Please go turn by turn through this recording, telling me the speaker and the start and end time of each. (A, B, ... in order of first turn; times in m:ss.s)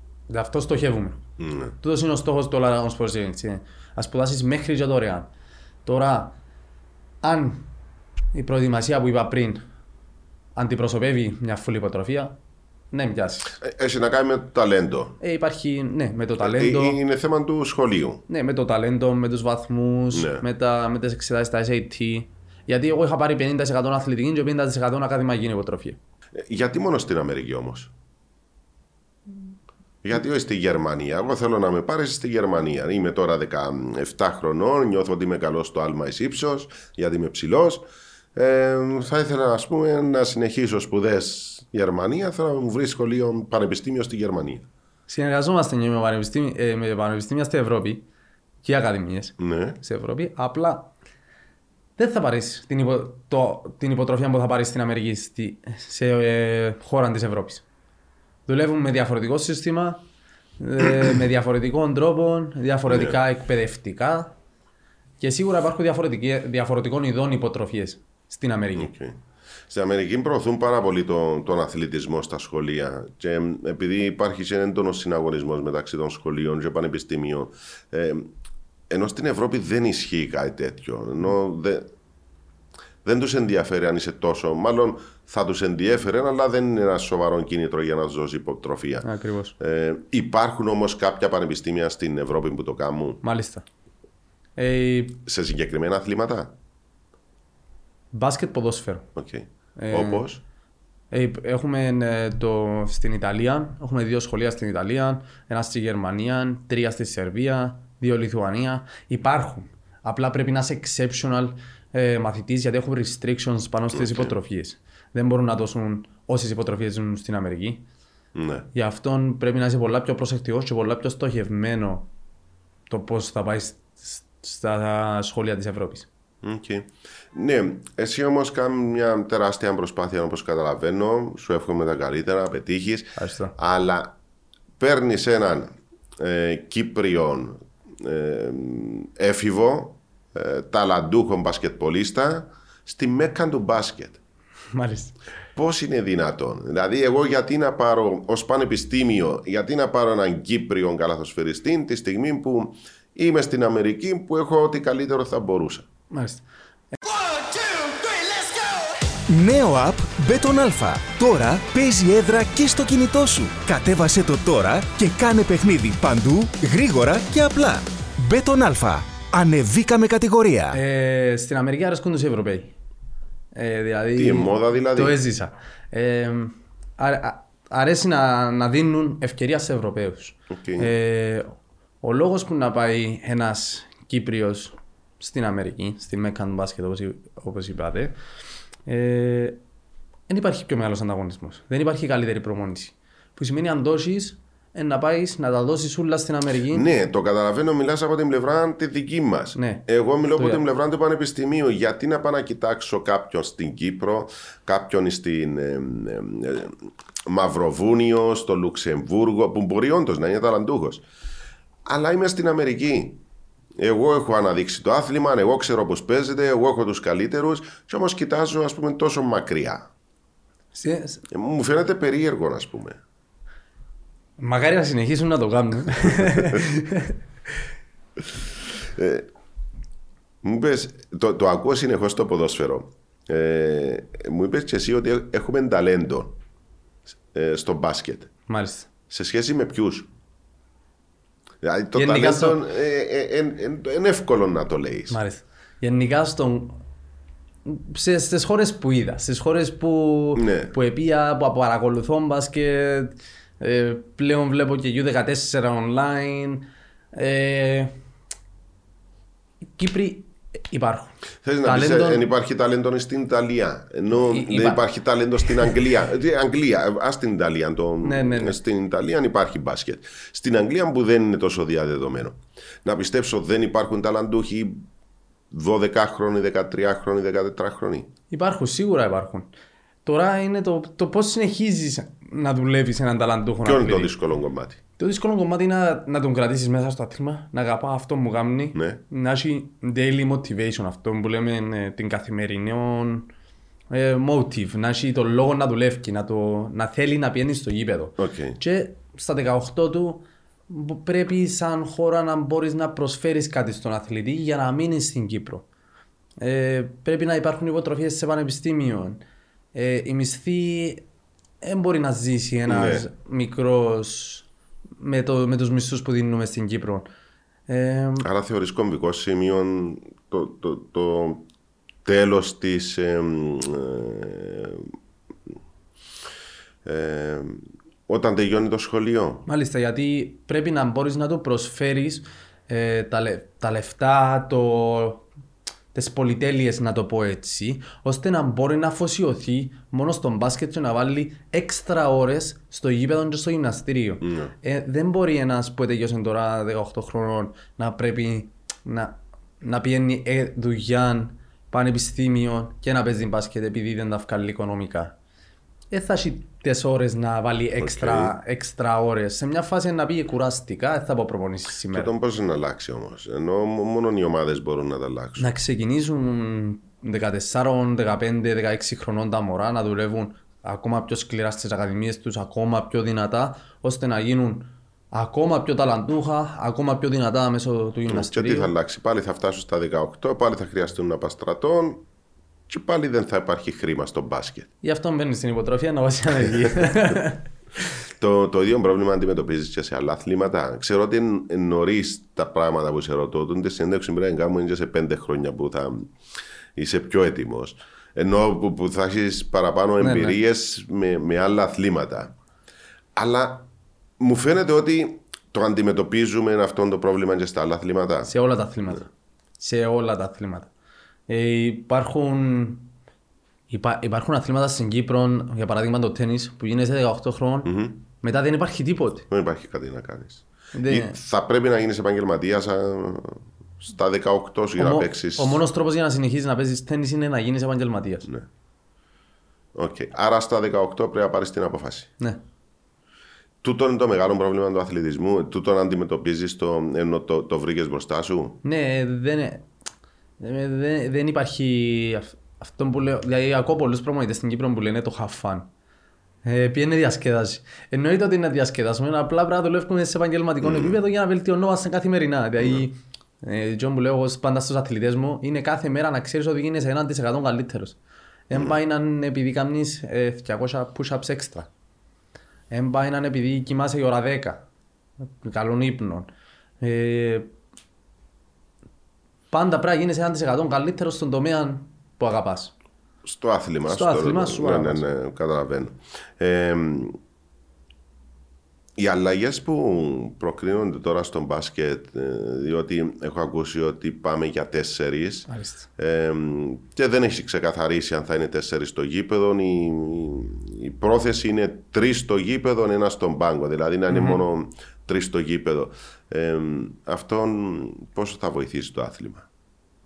0:00.3-0:01.2 A
0:01.4-0:01.7 B
0:01.8-0:05.3 A
0:05.8-0:06.4 A
0:07.2-0:07.7 A
0:08.3-0:09.6 A
0:10.6-0:12.4 A
0:12.9-0:13.6 A
0:13.6-0:15.2 B
0:15.2-0:17.0 A
0:16.4-0:18.2 B
0:18.3-0:26.0 A
0:20.1-0:20.4 B
0:26.4-0:27.9 B
0:30.0-0:44.7 B
0:45.1-0:48.0 A
0:48.6-0:50.9 A
0:49.4-0:49.8 B
0:52.0-0:57.6 A
0:58.5-1:00.0 A
1:00.6-1:04.4 A
1:02.9-1:03.2 B
1:05.2-1:08.9 A
1:08.8-1:09.2 B
1:09.7-1:18.3 B
1:18.9-1:21.9 B
1:23.0-1:29.1 B
1:29.0-1:29.6 A
1:29.6-1:33.2 B
1:33.2-1:33.7 A
1:34.6-1:35.2 A
1:35.2-1:36.6 B
1:38.1-1:39.1 A
1:39.2-1:40.4 B
1:39.8-1:40.3 A
1:41.1-1:57.8 A
1:53.9-1:54.3 B
1:58.4-1:58.7 B
1:58.7-2:02.1 A
2:02.9-2:06.1 A
2:06.4-2:14.2 B
2:13.2-2:13.6 A
2:14.8-2:24.2 B
2:24.7-2:25.2 A
2:25.6-2:35.9 B
2:36.1-2:37.0 A
2:39.3-2:50.8 C
2:50.7-2:52.7 A
2:53.5-3:08.2 A
2:54.2-2:55.2 B
3:00.5-3:00.9 B
3:08.9-3:09.6 A
3:10.3-3:16.9 A
3:16.7-3:31.0 B
3:19.6-3:20.6 A
3:31.9-3:33.2 B
3:33.8-3:39.9 B
3:40.7-3:41.2 A
3:41.3-3:43.0 B
3:44.4-3:47.2 A
3:46.2-3:46.6 B
3:48.8-3:49.3 B
3:50.4-3:56.4 B
3:57.3-3:58.3 B
3:58.5-3:58.9 A
3:59.1-4:00.1 B
4:01.6-4:05.2 B
4:01.9-4:02.6 A
4:05.1-4:06.8 A
4:07.7-4:17.9 A
4:10.4-4:10.7 B
4:19.8-4:22.3 A
4:21.4-4:34.8 B
4:24.1-4:24.8 A
4:28.0-4:28.6 A
4:35.5-4:38.1 B
4:38.3-4:39.5 A
4:40.0-4:44.1 A
4:43.6-4:44.8 B
4:45.0-4:53.3 A
4:48.8-4:49.0 B
4:53.9-5:05.7 A
4:58.2-4:58.6 B
5:06.4-5:09.2 A
5:09.7-5:11.0 A
5:11.6-5:14.5 A
5:12.7-5:13.1 B
5:15.0-5:17.1 A
5:17.7-5:18.3 A
5:18.2-5:21.5 B
5:22.0-5:24.9 B
5:26.8-5:29.5 B
5:29.5-5:35.3 A
5:35.9-5:55.2 A
5:44.2-5:44.5 B
5:55.9-6:02.1 A
5:57.8-5:58.4 B
6:01.9-6:05.5 B
6:05.4-6:18.7 A
6:18.1-6:22.0 B
6:22.7-6:24.7 B
6:24.8-6:27.4 A
6:28.2-6:36.1 B
6:36.8-6:42.3 B
6:40.0-6:40.4 A
6:43.2-6:48.3 B
6:48.2-6:50.7 A
6:51.3-6:52.9 A
6:53.7-6:59.3 A
6:57.6-6:58.0 B
6:59.3-7:05.6 B
7:00.7-7:01.2 A
7:04.8-7:08.3 A
7:09.8-7:12.1 B
7:13.6-7:18.6 B
7:18.6-7:19.6 A
7:20.4-7:25.7 A
7:26.4-7:38.0 A
7:30.6-7:31.0 B
7:32.6-7:32.9 B
7:38.5-7:41.7 A
7:42.7-7:44.6 A
7:45.4-7:46.3 A
7:46.8-7:47.5 A
7:49.5-7:52.7 A
7:53.2-7:57.2 B
7:53.9-7:55.0 A
7:59.0-8:19.5 B
8:05.5-8:05.9 A
8:14.1-8:14.4 A